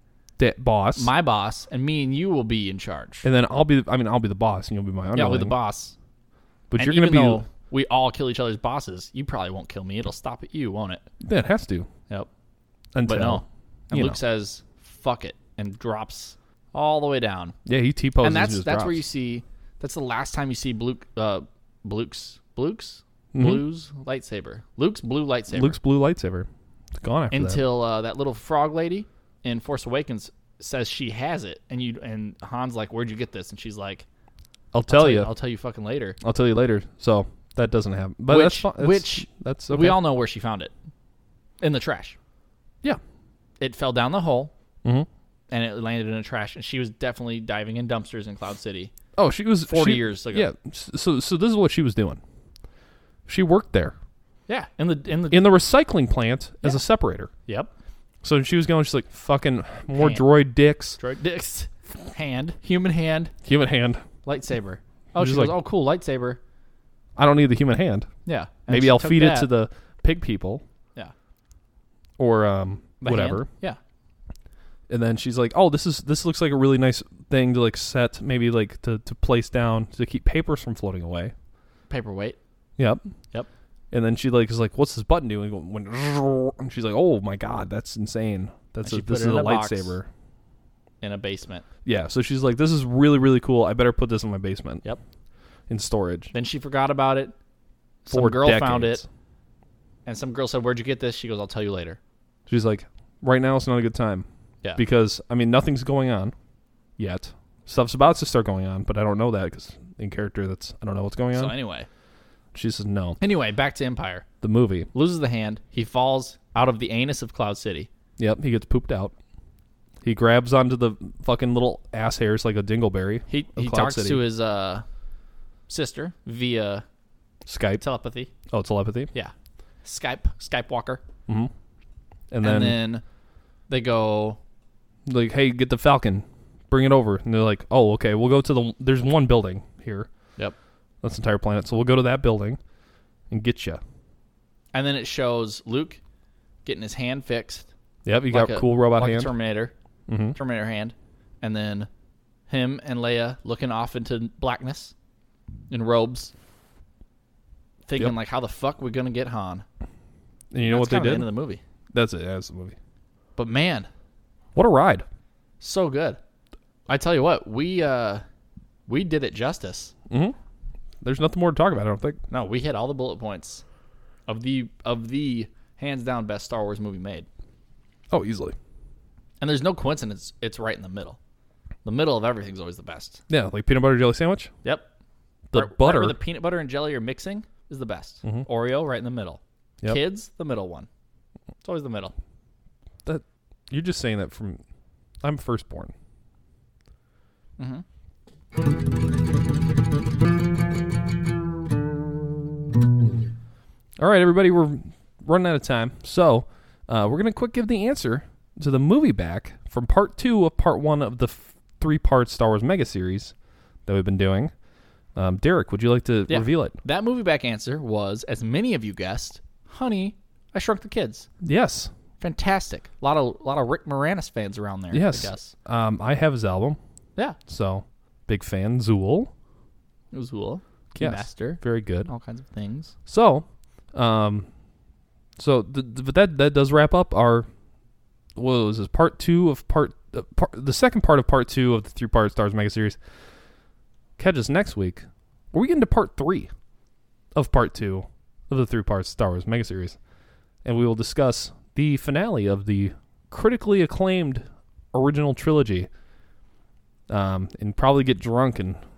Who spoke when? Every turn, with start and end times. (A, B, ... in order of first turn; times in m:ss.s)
0:00.4-0:01.1 A
0:01.0-0:03.2 B
0:03.2-0:05.5 A
0:05.1-0:05.9 B
0:06.7-0:07.4 A
0:06.8-0:11.0 B
0:11.2-0:11.9 A
0:12.9-0:14.2 A
0:13.0-0:17.6 B
0:17.6-0:19.0 A
0:18.2-0:25.8 B
0:23.3-0:23.6 A
0:25.5-0:27.6 A
0:27.3-0:34.0 B
0:34.7-0:35.3 A
0:34.9-0:36.2 B
0:36.2-0:40.0 A
0:38.3-0:40.7 B
0:41.6-0:42.2 B
0:43.6-0:44.5 B
0:45.5-0:48.9 B
0:49.2-0:52.2 A
0:49.7-0:50.5 B
0:53.3-0:54.0 A
0:54.5-0:55.5 B
0:55.3-0:57.3 A
0:58.2-1:01.0 A
0:59.9-1:00.2 B
1:01.0-1:03.3 B
1:03.4-1:04.0 A
1:04.2-1:06.4 B
1:05.2-1:05.6 A
1:07.2-1:08.1 A
1:08.2-1:09.5 B
1:08.7-1:10.6 A
1:12.2-1:13.5 A
1:13.0-1:13.8 B
1:14.9-1:21.3 A
1:21.9-1:22.4 B
1:22.8-1:23.0 A
1:23.9-1:30.1 A
1:28.8-1:30.0 B
1:31.0-1:31.6 B
1:31.8-1:34.8 A
1:35.7-1:36.3 A
1:36.3-1:37.3 B
1:38.0-1:39.0 B
1:38.1-1:39.0 A
1:40.0-1:42.0 B
1:42.5-1:44.2 A
1:44.8-1:46.3 A
1:47.0-1:51.5 A
1:51.3-1:51.9 B
1:52.5-1:53.2 A
1:53.2-1:54.2 B
1:54.4-1:54.9 A
1:54.9-1:57.9 B
1:58.2-1:59.1 A
2:00.0-2:04.3 A
2:03.3-2:04.8 B
2:05.7-2:06.8 B
2:07.4-2:07.8 A
2:07.8-2:08.3 B
2:08.5-2:09.1 A
2:09.8-2:11.0 B
2:12.3-2:12.8 A
2:12.4-2:13.0 B
2:13.7-2:14.4 B
2:15.1-2:20.1 A
2:21.0-2:22.6 A
2:23.3-2:23.8 A
2:24.7-2:26.0 B
2:26.6-2:27.7 B
2:28.0-2:29.3 A
2:28.3-2:29.7 B
2:30.1-2:30.4 A
2:30.3-2:31.9 B
2:32.5-2:34.9 B
2:35.7-2:36.3 B
2:37.9-2:39.6 B
2:40.5-2:41.3 A
2:40.7-2:41.6 B
2:41.9-2:42.7 A
2:43.4-2:43.9 B
2:44.5-2:45.0 A
2:45.6-2:46.2 B
2:46.9-2:48.2 B
2:48.9-2:49.9 B
2:50.1-2:50.4 A
2:51.0-2:52.2 A
2:52.3-2:53.6 B
2:54.3-2:57.3 B
2:58.1-2:58.6 A
2:59.4-3:01.2 B
3:01.8-3:03.2 B
3:03.3-3:04.5 A
3:05.5-3:06.2 A
3:05.5-3:10.9 B
3:11.6-3:12.1 B
3:13.0-3:14.6 A
3:15.2-3:15.9 A
3:17.6-3:17.8 B
3:24.0-3:33.3 A
3:33.8-3:34.5 A
3:35.2-3:36.8 A
3:36.3-3:41.3 B
3:41.4-3:41.9 A
3:42.2-3:45.5 B
3:44.9-3:46.8 A
3:47.5-3:49.3 A
3:50.1-3:52.9 B
3:51.0-3:52.1 A
3:53.1-3:54.5 A
3:55.4-3:57.5 A
3:58.4-4:03.0 A
4:04.2-4:06.5 A
4:07.3-4:10.0 A
4:10.6-4:15.9 A
4:17.1-4:18.8 A